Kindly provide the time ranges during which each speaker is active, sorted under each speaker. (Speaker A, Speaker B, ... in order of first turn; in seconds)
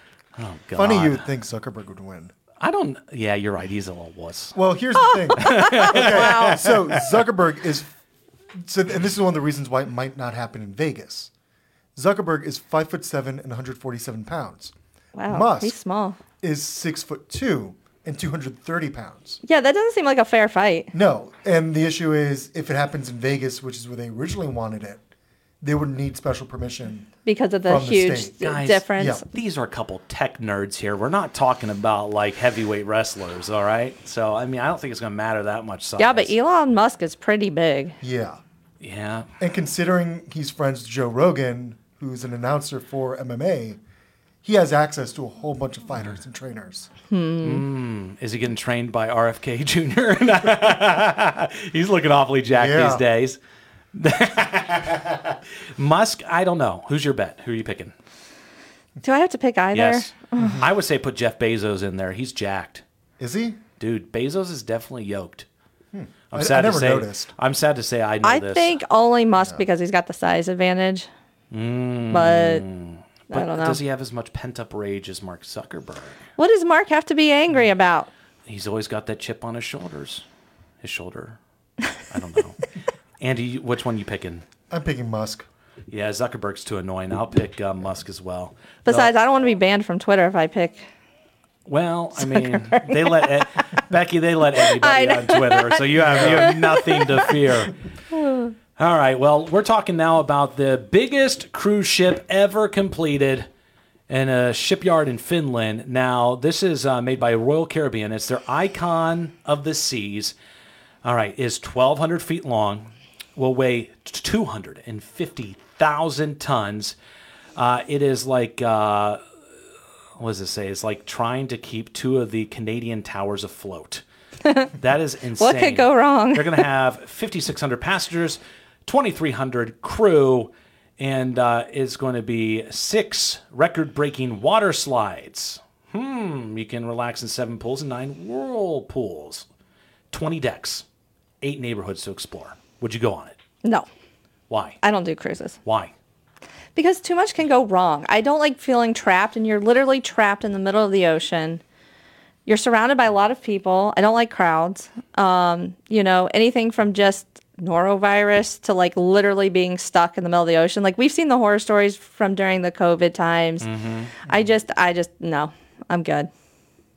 Speaker A: 0.4-1.2, 2.6-4.5, 5.4-7.1, 28.4-36.4, 38.8-39.3, 47.4-53.4, 53.9-57.9, 59.7-62.8, 63.8-65.5, 66.3-68.8, 71.5-76.2, 78.5-80.2, 80.8-81.4, 82.1-82.6, 83.2-84.5, 85.9-89.1, 91.7-97.7, 98.8-103.5, 104.1-110.3, 111.0-117.0, 117.6-119.2, 120.2-124.0, 124.8-139.4, 140.1-140.8, 141.4-143.4, 144.5-144.8, 145.7-145.9, 163.6-164.1
Speaker B: 0.8-2.3, 4.5-7.9, 8.6-11.3, 12.0-14.7, 15.3-15.8, 16.4-19.4, 20.9-25.0, 25.6-27.1, 27.7-28.4, 29.0-29.2, 38.0-38.4, 39.4-43.8, 44.4-46.9, 52.5-53.0, 60.4-60.7, 63.2-63.6, 65.9-67.3, 84.7-85.5, 96.0-96.6
Speaker C: 5.0-6.7, 15.2-16.2, 19.4-20.9, 27.2-29.3, 36.0-38.0, 47.1-47.6, 59.0-60.6, 68.2-71.1, 72.1-72.7, 73.3-73.8, 76.4-78.1, 88.8-90.8, 92.2-93.5, 94.6-97.5, 98.1-98.5, 124.4-124.7, 125.4-126.6, 144.8-145.6, 146.8-151.6, 152.5-163.7, 164.2-166.3